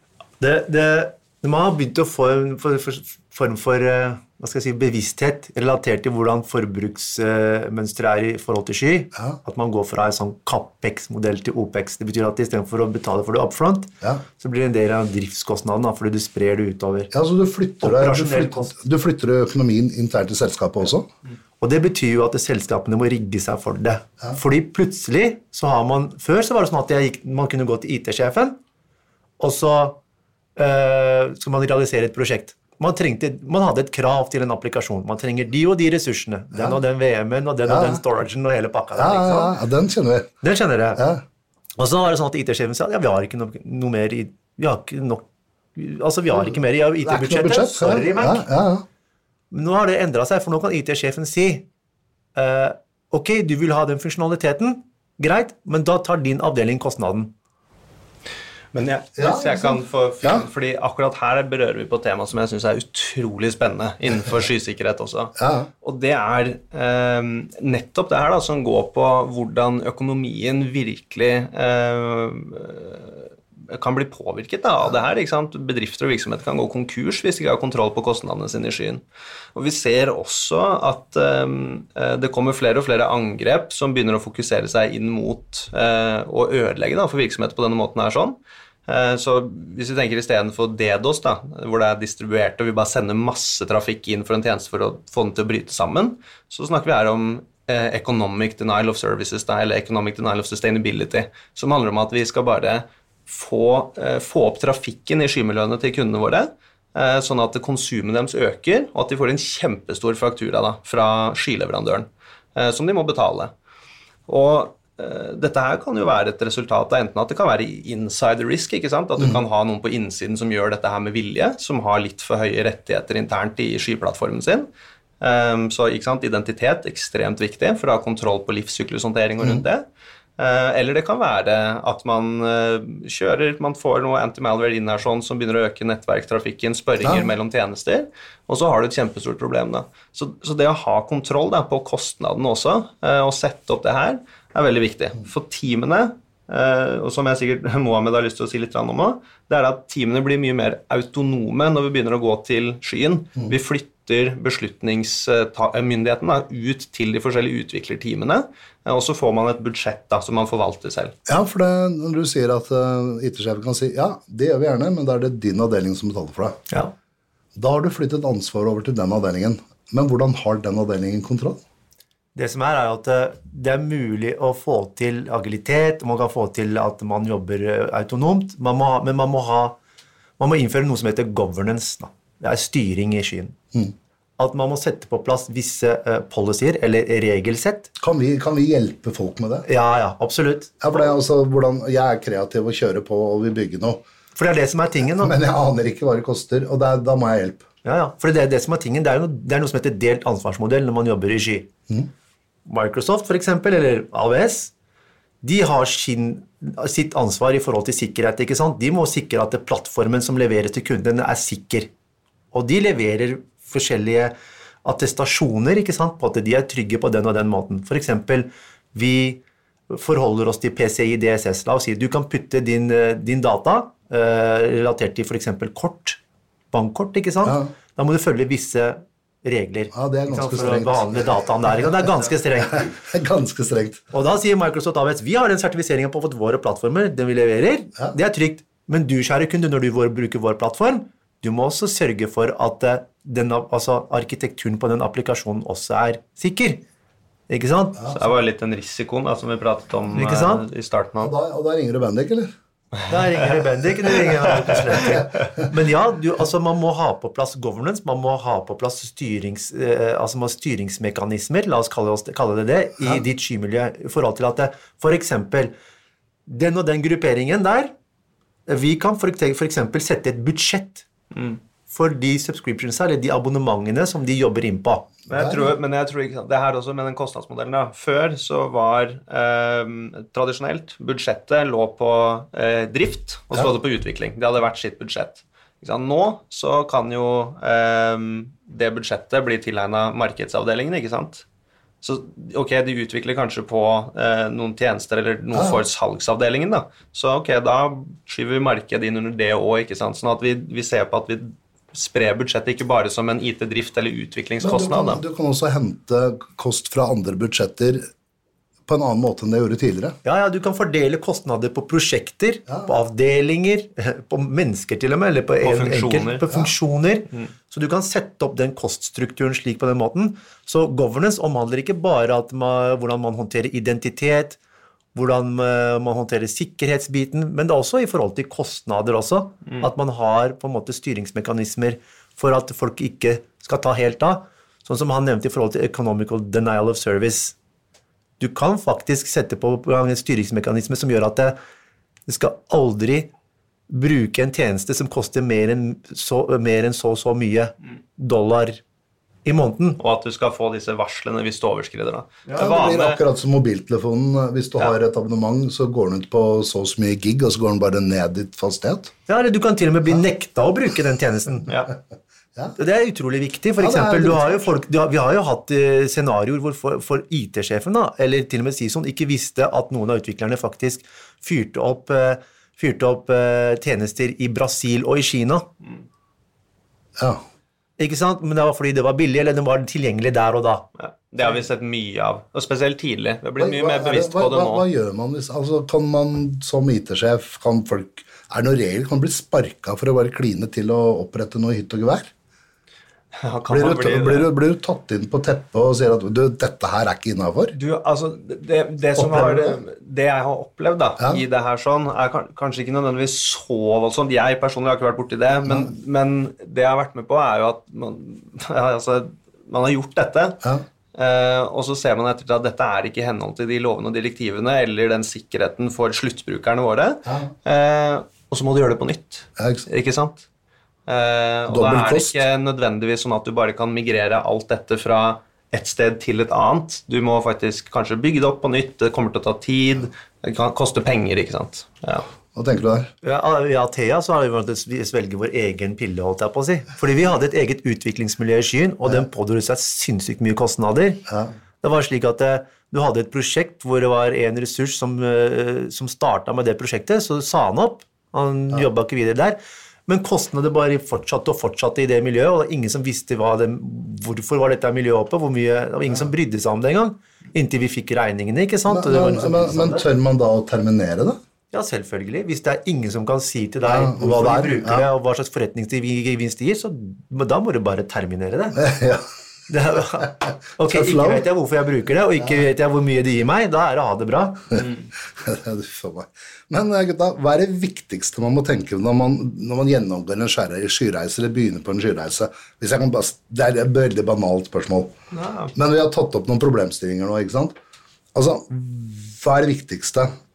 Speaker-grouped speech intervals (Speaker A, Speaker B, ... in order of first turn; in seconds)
Speaker A: 0.4-17.1, 17.8-18.8, 21.6-28.6, 29.4-30.0, 30.6-39.6, 40.4-41.0, 41.8-48.5, 49.5-51.7, 52.4-57.3, 172.3-179.8, 180.4-183.6, 184.4-187.9, 189.7-190.8, 194.4-195.3, 197.8-201.7, 202.7-204.7, 205.4-211.9, 212.5-226.2, 226.7-232.9, 234.1-246.8, 247.5-248.2, 250.1-250.7, 253.1-265.7, 266.5-267.9, 268.7-271.1, 271.9-275.1, 310.2-324.6, 325.1-337.6, 338.4-341.6, 342.3-343.3, 343.9-348.8, 349.4-350.0, 359.3-361.7, 362.8-375.7, 378.0-380.9, 433.2-441.3, 441.8-460.1, 461.7-468.8, 469.7-474.9
Speaker B: 17.1-21.1, 36.5-36.8, 37.7-38.0, 39.0-40.3, 41.0-41.2, 47.0-48.9, 59.2-60.5, 65.4-65.7, 137.0-137.3, 161.3-166.6, 167.6-171.6, 188.0-189.7, 190.8-194.0, 195.2-197.7, 229.9-231.4, 232.7-234.1, 251.2-252.5, 275.3-275.7, 295.5-295.8, 304.6-308.1, 308.9-310.2, 352.6-359.1, 363.8-364.7, 377.2-377.4, 383.6-392.3, 393.7-397.8, 399.2-399.8, 405.7-405.9, 417.3-417.5, 419.6-419.9, 421.7-422.4, 432.5-433.1, 458.9-461.4, 463.8-465.1, 468.8-469.3, 470.9-471.4, 475.4-485.1, 485.7-487.8, 488.4-490.3
Speaker C: 58.7-79.0, 79.5-113.5, 114.3-124.7, 125.2-129.9, 130.4-161.2, 248.1-251.3, 275.3-291.4, 292.0-305.2, 315.6-316.4, 350.0-353.2, 361.7-361.9, 381.0-384.9, 393.4-394.5, 397.8-410.6, 411.1-420.5, 421.1-432.3, 485.3-485.7